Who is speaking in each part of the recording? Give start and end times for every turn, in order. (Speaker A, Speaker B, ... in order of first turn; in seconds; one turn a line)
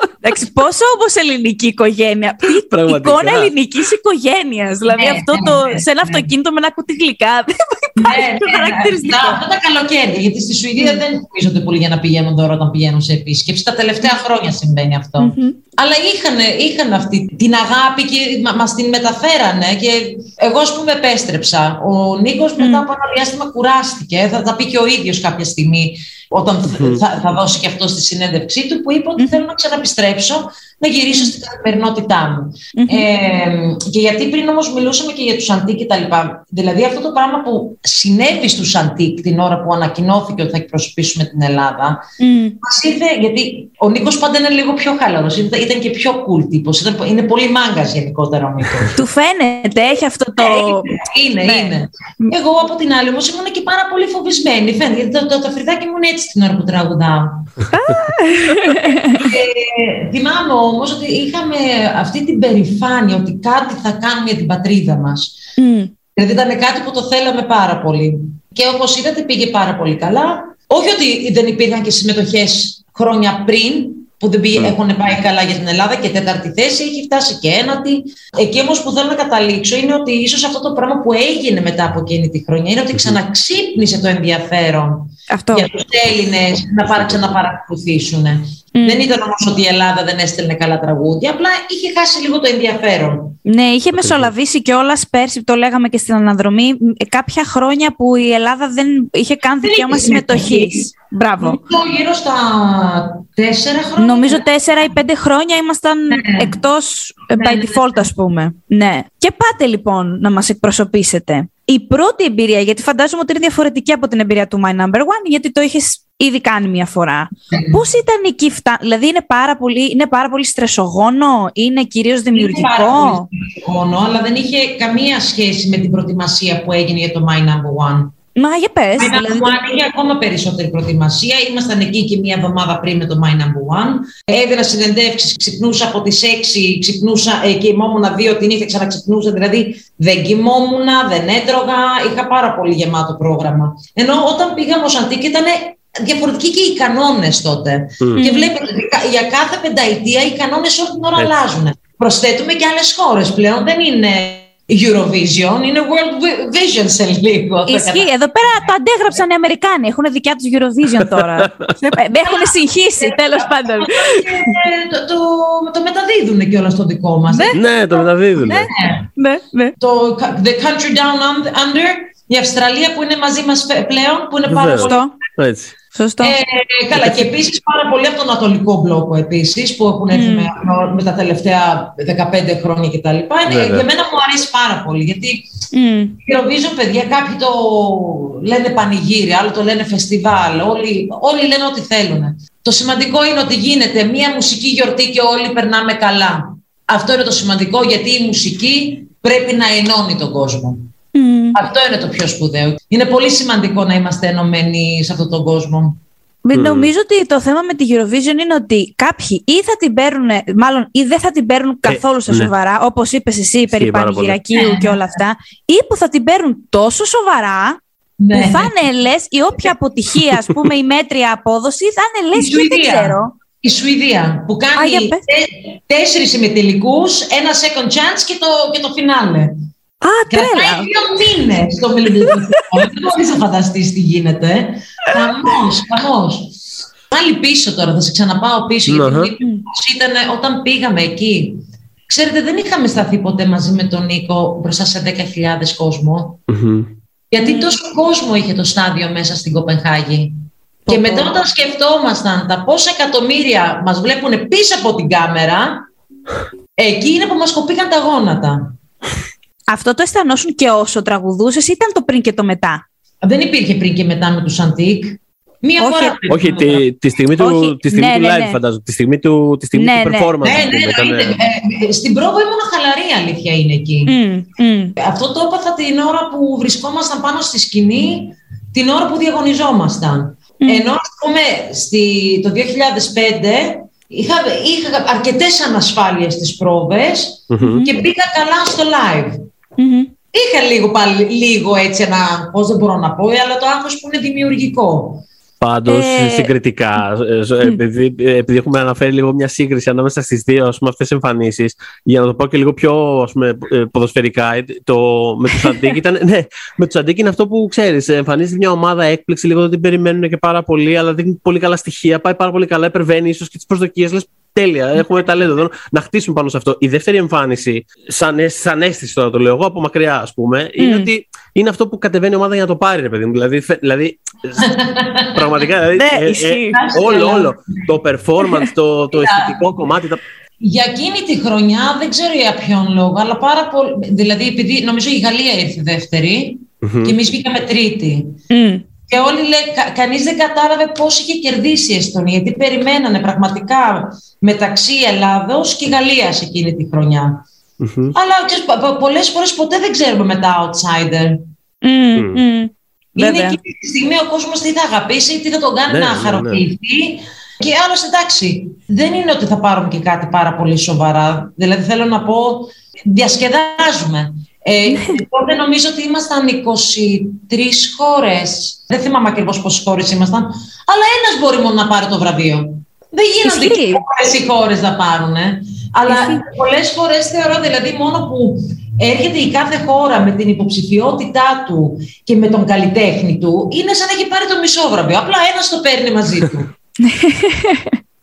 Speaker A: 0.2-9.4
Speaker B: 2.5-3.5
Speaker C: 4.9-6.3
Speaker C: 8.0-42.0
Speaker A: 15.2-15.6
Speaker B: 26.7-27.0
Speaker A: 32.8-33.1
Speaker A: 42.2-42.6
Speaker C: 42.6-48.9
Speaker A: 48.9-50.9
Speaker C: 50.4-57.5
Speaker A: 51.4-52.3
Speaker A: 57.7-59.3
Speaker C: 59.2-65.4
Speaker A: 65.6-65.9
Speaker C: 66.2-93.3
Speaker A: 85.3-85.7
Speaker B: 86.9-87.3
Speaker A: 88.7-89.0
Speaker A: 93.5-101.6
Speaker B: 93.9-94.3
Speaker C: 99.6-100.9
Speaker C: 101.4-104.4
Speaker A: 104.0-123.2
Speaker C: 106.1-106.5
Speaker C: 107.3-108.1
Speaker C: 117.5-117.8
Speaker C: 122.3-128.1
Speaker A: 128.3-129.5
Speaker C: 129.0-158.1
Speaker A: 148.2-148.5
Speaker A: 157.7-164.5
Speaker B: 161.1-161.7
Speaker C: 162.2-167.7
Speaker A: 167.3-167.6
Speaker B: 167.5-168.7
Speaker C: 168.3-169.0
Speaker A: 168.4-169.7
Speaker C: 169.8-175.0
Speaker B: 174.5-175.8
Speaker A: 174.8-175.1
Speaker A: 175.9-176.4
Speaker C: 176.2-185.4
Speaker B: 176.9-177.3
Speaker A: 180.1-180.5
Speaker B: 183.5-183.8
Speaker A: 185.7-186.2
Speaker C: 186.2-200.9
Speaker A: 201.1-201.6
Speaker C: 201.5-206.0
Speaker A: 206.4-217.8
Speaker B: 206.5-206.9
Speaker B: 211.8-212.5
Speaker B: 213.7-214.4
Speaker C: 214.5-215.0
Speaker C: 218.2-218.7
Speaker A: 218.3-223.3
Speaker C: 222.3-229.5
Speaker A: 224.8-225.2
Speaker A: 230.0-230.9
Speaker C: 230.3-246.4
Speaker B: 238.9-239.3
Speaker B: 246.5-246.9
Speaker C: 247.3-255.8
Speaker A: 247.4-247.7
Speaker A: 250.8-251.4
Speaker C: 256.8-258.7
Speaker A: 259.7-262.8
Speaker C: 263.2-266.8
Speaker A: 265.8-266.2
Speaker B: 266.3-271.4
Speaker A: 267.4-268.6
Speaker A: 269.7-270.3
Speaker C: 270.4-274.2
Speaker A: 274.1-274.9
Speaker C: 275.0-289.5
Speaker B: 287.5-287.9
Speaker A: 289.8-290.1
Speaker C: 290.3-295.2
Speaker B: 295.6-324.7
Speaker A: 295.9-296.5
Speaker A: 320.8-321.1
Speaker C: 324.6-325.6
Speaker B: 325.3-330.2
Speaker A: 325.9-326.8
Speaker C: 326.7-327.5
Speaker C: 329.1-329.6
Speaker C: 330.6-338.4
Speaker B: 336.8-337.1
Speaker A: 338.5-338.8
Speaker C: 339.1-347.4
Speaker B: 347.8-348.1
Speaker C: 348.1-351.4
Speaker A: 351.8-353.6
Speaker B: 352.1-352.4
Speaker C: 353.2-386.7
Speaker B: 355.9-356.6
Speaker A: 364.9-365.2
Speaker A: 373.4-374.0
Speaker A: 376.1-376.4
Speaker A: 387.0-388.0